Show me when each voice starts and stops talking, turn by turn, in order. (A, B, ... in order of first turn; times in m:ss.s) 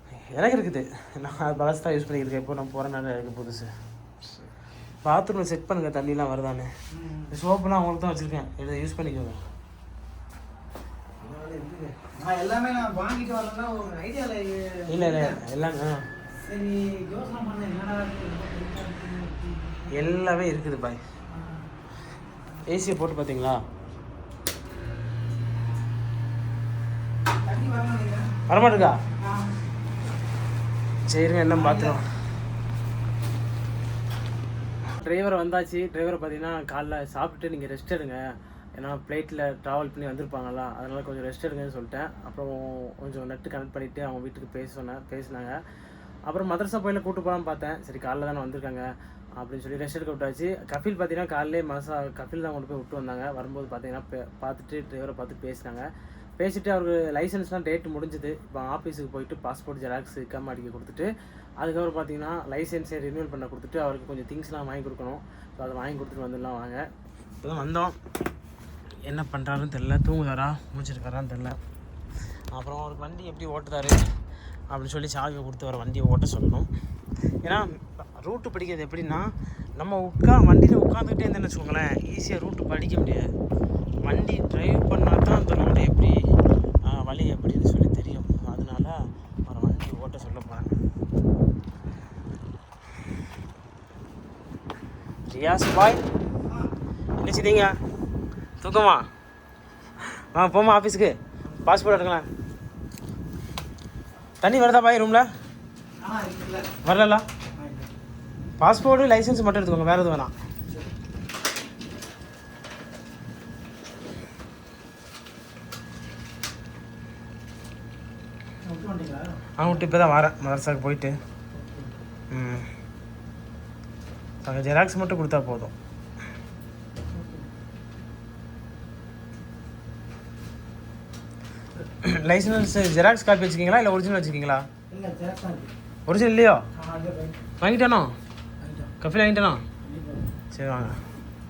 0:00.3-0:03.7 A
0:05.0-0:06.7 A
0:07.0-0:07.3 B
0:07.3-0:09.4 A
0:11.2-0:15.4 B
0:14.9-0:16.1 A
0:16.4-0:19.9 B
0:19.9-0:21.0 A
0:22.6-0:23.6 A
0:27.4-0:28.4 B
0:28.5-0:29.0 A
0:29.2-0:29.5 B
0:31.1-0:32.0 A
0:31.5-0:32.0 B
0:34.9-0:38.2 A
0:38.7-0:45.6 A
0:46.3-0:55.8 A
0:56.4-1:06.8 A
1:07.4-1:08.0 A
1:09.0-1:11.6 A
1:12.5-1:14.0 A
1:14.7-1:16.7 A
1:17.4-1:23.3 A
1:24.0-1:26.2 A
1:26.8-1:30.7 A
1:35.3-1:36.0 A
1:37.2-1:37.7 A
1:38.6-1:39.0 A
1:40.1-1:42.3 A
1:44.4-1:45.3 A
1:46.0-1:46.7 B
1:46.8-1:47.2 A
1:47.5-1:47.9 B
1:48.6-1:50.3 A
1:58.6-1:59.7 B
1:59.6-2:01.1 A
2:01.5-2:02.0 B
2:02.3-2:02.7 A
2:04.4-2:05.7 A
2:07.1-2:07.5 B
2:12.0-2:14.7 A
2:14.9-2:15.7 B
2:16.0-2:16.6 A
2:16.7-2:17.4 B
2:17.6-2:18.1 A
2:18.6-2:18.9 B
2:19.0-2:19.6 A
2:19.8-2:20.3 B
2:20.5-2:21.0 A